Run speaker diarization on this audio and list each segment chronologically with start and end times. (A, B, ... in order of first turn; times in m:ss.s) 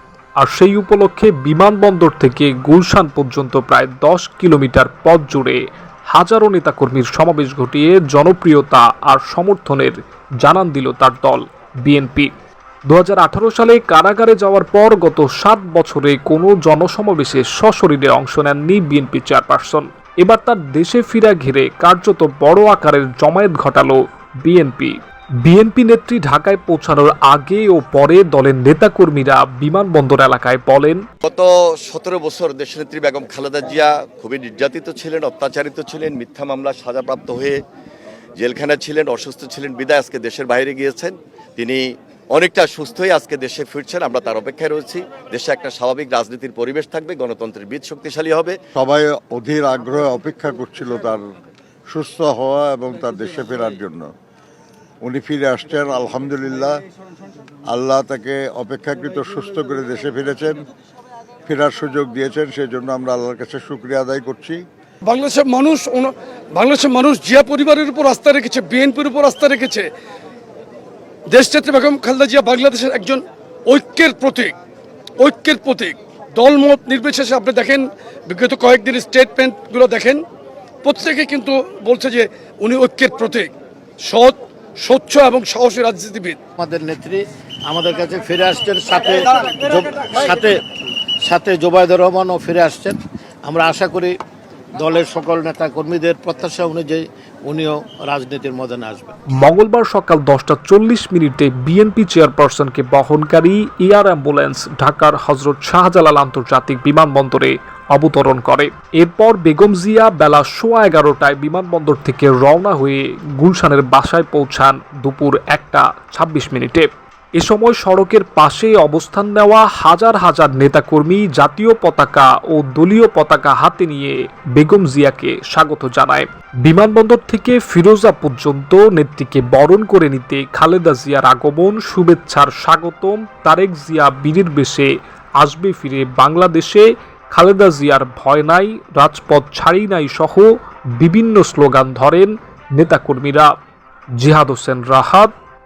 0:00.4-0:05.6 A
0:06.1-0:12.3 A
0:12.9-0:31.0 A
0:31.2-0:37.6 B
0:38.4-0:48.6 B
0:48.8-0:51.2 C
0:51.9-0:54.1 C
0:55.0-0:56.7 C
0:57.7-1:00.6 C
1:01.4-1:04.6 C
1:05.0-1:09.9 D
1:11.3-1:14.5 D
1:15.2-1:20.2 D
1:20.8-1:23.5 D
1:24.1-1:26.4 D
1:26.6-1:30.6 E
1:31.2-1:34.1 E
1:34.7-1:39.1 E
1:39.4-2:23.5 A
2:24.2-2:25.3 A